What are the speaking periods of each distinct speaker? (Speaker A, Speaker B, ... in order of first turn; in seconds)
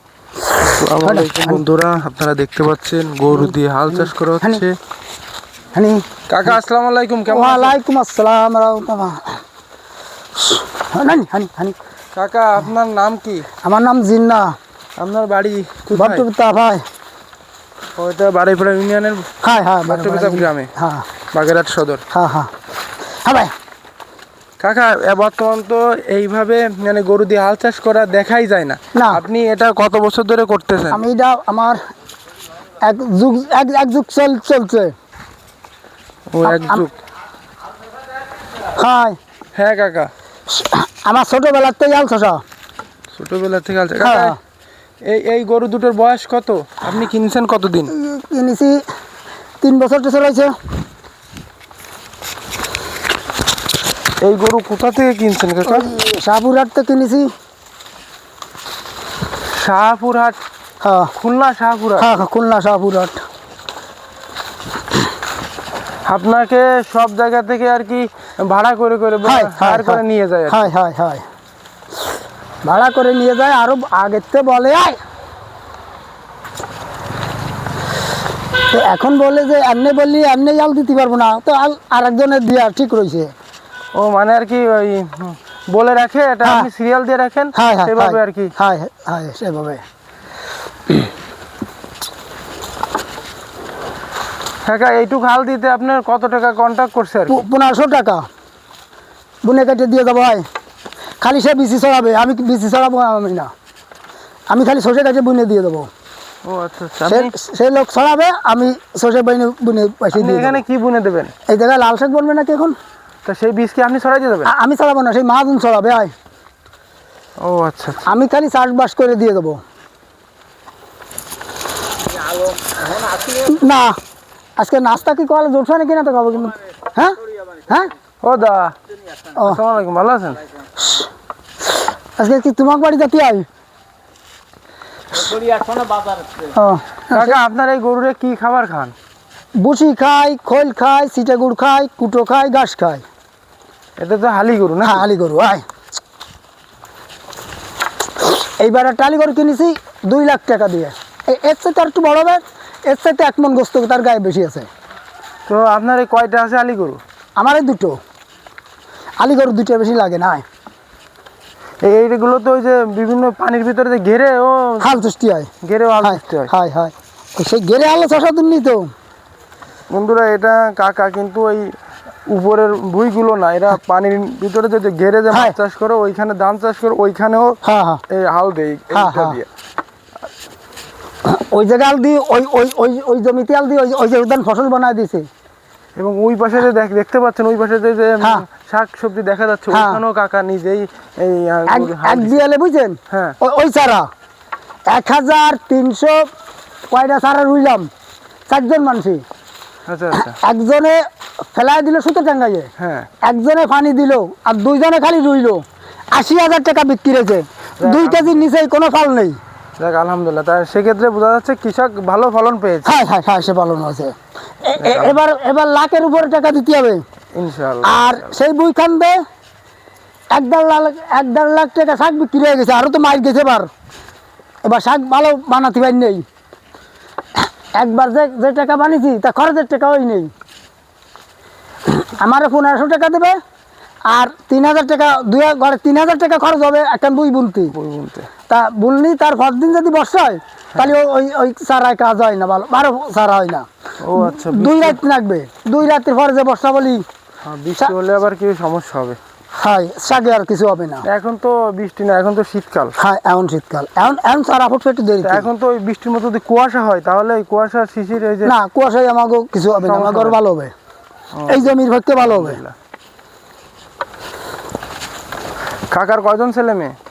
Speaker A: 0.4-1.6, 3.3-4.6, 5.7-6.6, 7.2-9.4, 10.3-11.8, 13.5-14.6, 15.9-16.8, 19.4-21.1, 22.1-22.5, 23.1-23.5, 28.9-29.2, 30.9-31.8, 32.8-34.9, 36.4-36.9, 38.7-39.2, 40.5-42.4, 43.9-44.4, 47.8-48.8, 49.6-50.5, 55.6-57.3, 60.8-61.1, 62.0-63.2, 69.2-71.2, 72.6-75.0, 78.7-83.3, 86.4-86.7, 87.5-89.8, 97.3-98.2, 99.4-100.4, 101.2-103.5, 104.5-105.9, 107.0-110.6, 111.5-112.8, 114.4-116.1, 118.0-119.6, 123.2-124.0, 124.6-127.9, 129.3-129.6, 130.8-131.1, 132.2-133.5, 136.4-137.4, 139.6-143.0, 144.8-145.6, 148.2-154.7, 157.4-158.0, 159.2-160.4, 164.8-168.9, 175.3-175.6, 177.6-178.0, 178.9-179.4, 181.2-185.3, 188.2-188.5, 189.7-190.0, 191.7-194.1, 194.9-196.3, 196.9-197.9, 198.5-199.2, 200.1-202.7, 203.2-209.4, 212.8-217.0, 217.8-219.2, 220.3-223.7, 224.6-226.2, 227.3-230.3, 231.8-233.3, 234.1-237.7, 238.5-247.0, 249.5-251.1, 253.0-255.5, 258.4-260.7, 261.5-262.6
Speaker B: 0.7-4.7, 6.3-7.8, 12.2-13.4, 15.0-16.2, 18.0-19.3, 19.9-20.7, 21.3-22.0, 24.6-31.0, 36.3-36.9, 39.5-40.1, 43.2-44.4, 45.0-47.9, 54.2-55.9, 59.5-60.4, 61.1-62.1, 66.0-70.7, 83.9-88.5, 94.7-97.4, 106.4-107.3, 110.2-111.3, 113.2-114.5, 117.4-118.0, 128.2-128.7, 129.4-130.4, 137.1-138.9, 144.0-145.0, 155.5-157.0, 161.8-165.0, 165.6-166.5, 169.9-171.8, 172.3-179.5, 185.9-192.4, 193.1-193.4, 199.9-200.4, 202.8-203.1, 207.8-208.3, 209.8-213.0, 214.8-215.1, 217.3-218.2, 237.7-238.3, 244.0-245.0, 247.4-249.2, 251.1-252.9, 255.2-258.5, 259.8-260.4, 261.3-262.7, 265.9-266.9